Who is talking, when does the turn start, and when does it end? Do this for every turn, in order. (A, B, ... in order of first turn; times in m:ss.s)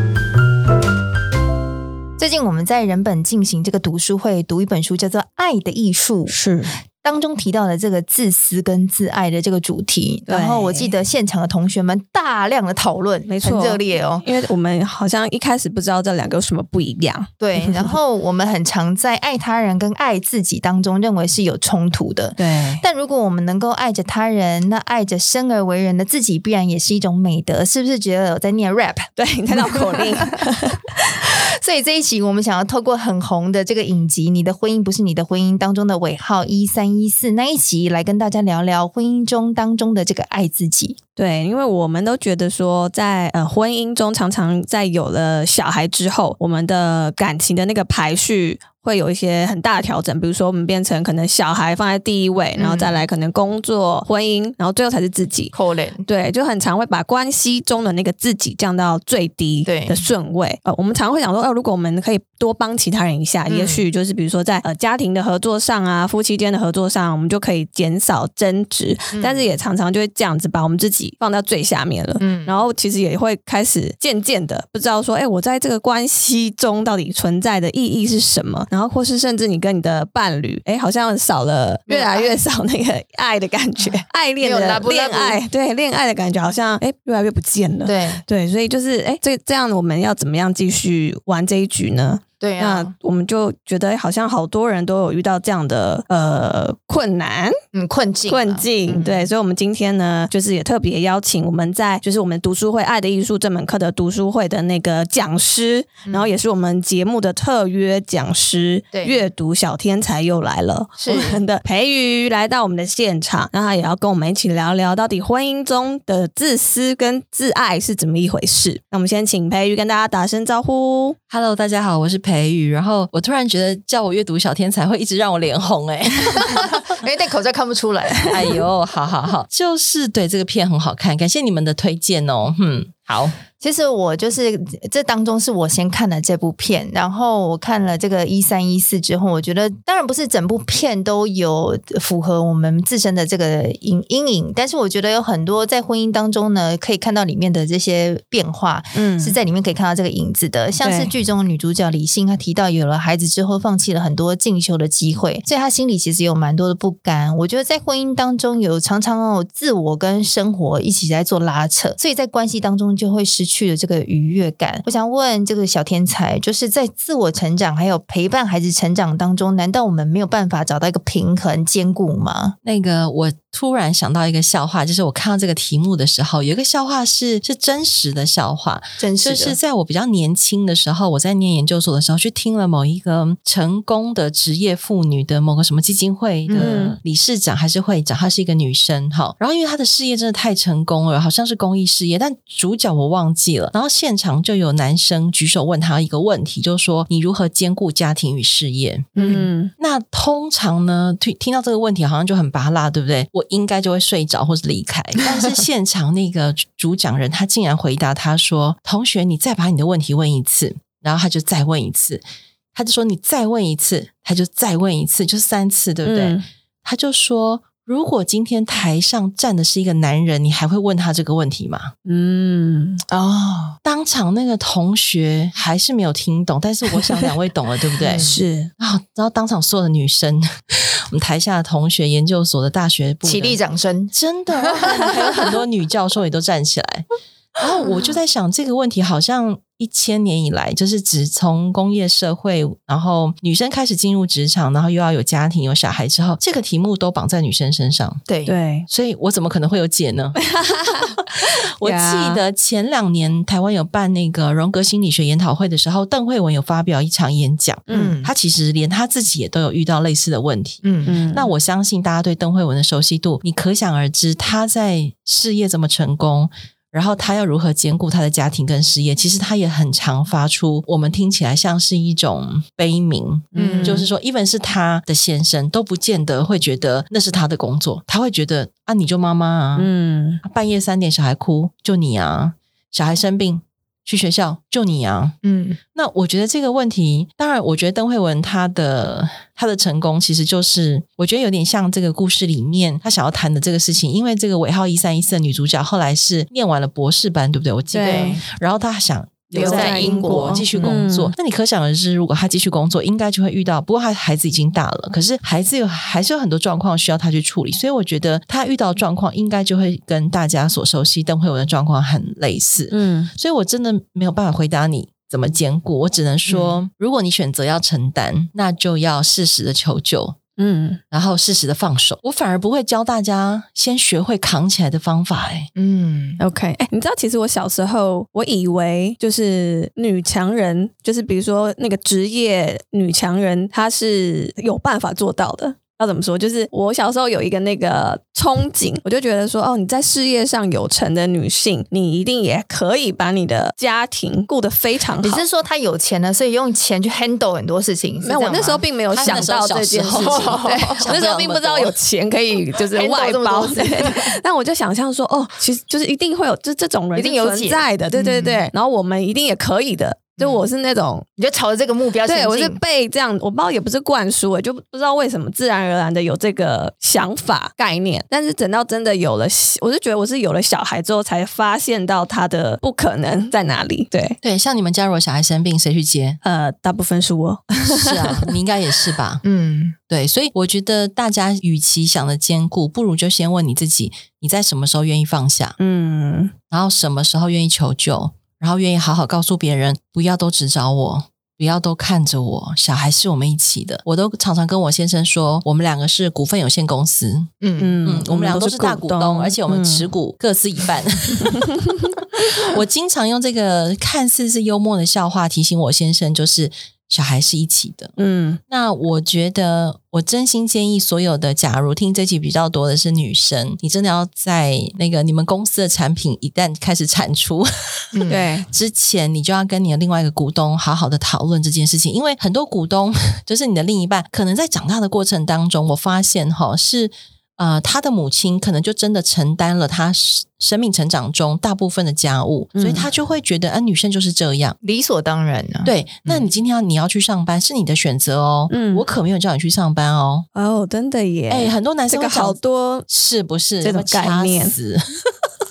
0:02.2-0:06.4 A
0:06.3-0:06.7 B
0:07.0-0:14.3 A
0:10.3-0:10.9 B
0:13.3-0:18.0 B
0:17.4-0:30.5 A
0:22.4-0:22.8 B
0:29.2-0:30.9 B
0:31.3-0:41.0 A
0:41.2-0:55.5 B
0:52.6-0:53.0 A
0:55.5-0:56.1 A
0:56.1-1:37.6 B
0:59.7-1:00.0 A
1:03.5-1:03.8 A
1:09.1-1:09.4 A
1:12.2-1:12.6 A
1:21.9-1:22.4 A
1:23.8-1:25.4 A
1:27.8-1:28.2 A
1:32.4-1:32.9 A
1:37.7-1:39.3 A
1:38.3-2:01.2 B
1:46.1-1:46.3 A
1:48.9-1:49.3 A
1:51.0-1:51.4 A
2:01.3-2:07.0 C
2:06.4-2:08.6 A
2:08.3-2:13.4 C
2:13.6-2:52.6 A
2:28.9-2:29.4 B
2:30.8-2:31.1 B
2:52.6-3:19.1 C
2:59.0-2:59.6 A
3:06.5-3:06.8 A
3:06.6-3:07.0 B
3:19.2-3:19.7 B
3:19.2-3:19.5 A
3:19.8-3:32.2 C
3:32.7-3:41.9 C
3:36.0-3:36.4 B
3:42.1-3:43.0 B
3:43.1-3:43.8 A
3:43.8-3:48.2 C
3:48.0-3:48.4 A
3:48.2-3:48.7 B
3:48.8-3:53.6 C
3:53.2-3:54.8 A
3:54.1-3:57.1 C
3:57.6-4:08.2 C
4:08.3-4:08.6 A
4:08.5-4:08.9 B
4:08.9-4:10.5 C
4:10.5-4:11.2 B
4:11.0-4:39.9 C
4:11.8-4:12.4 B
4:17.9-4:18.2 B
4:17.9-4:18.3 A
4:20.8-4:21.2 A
4:21.0-4:21.5 B
4:33.5-4:34.1 B
4:33.6-4:34.0 A
4:39.8-4:40.4 B
4:40.4-4:45.4 C
4:45.4-4:45.8 A
4:45.9-5:20.4 C
4:57.9-4:58.4 B
4:58.0-4:58.4 A
4:59.5-5:01.3 B
4:59.5-5:01.0 A
5:12.9-5:13.3 B
5:16.5-5:16.8 A
5:20.6-5:21.0 B
5:21.1-5:25.7 C
5:25.8-5:26.4 A
5:26.4-5:45.4 B
5:45.2-5:49.6 A
5:48.2-6:01.3 B
5:49.1-5:52.0 C
5:50.1-5:51.1 A
5:52.9-5:54.4 A
5:57.2-5:58.6 A
6:00.4-6:00.7 A
6:01.4-6:02.8 A
6:02.2-6:14.4 B
6:14.4-6:16.4 C
6:16.4-6:18.6 B
6:17.9-6:19.4 C
6:19.4-6:20.0 A
6:20.1-6:25.8 C
6:25.8-6:26.6 B
6:26.7-6:37.5 C
6:37.6-6:38.0 A
6:37.8-6:40.1 B
6:38.0-6:48.2 C
6:48.2-6:48.6 B
6:48.7-7:14.8 C
6:58.1-6:58.4 A
6:58.3-6:58.7 B
7:12.8-7:13.1 B
7:14.8-7:16.5 A
7:15.8-7:20.5 C
7:18.7-7:19.0 B
7:20.6-7:23.1 B
7:21.5-7:25.2 C
7:23.8-7:24.7 B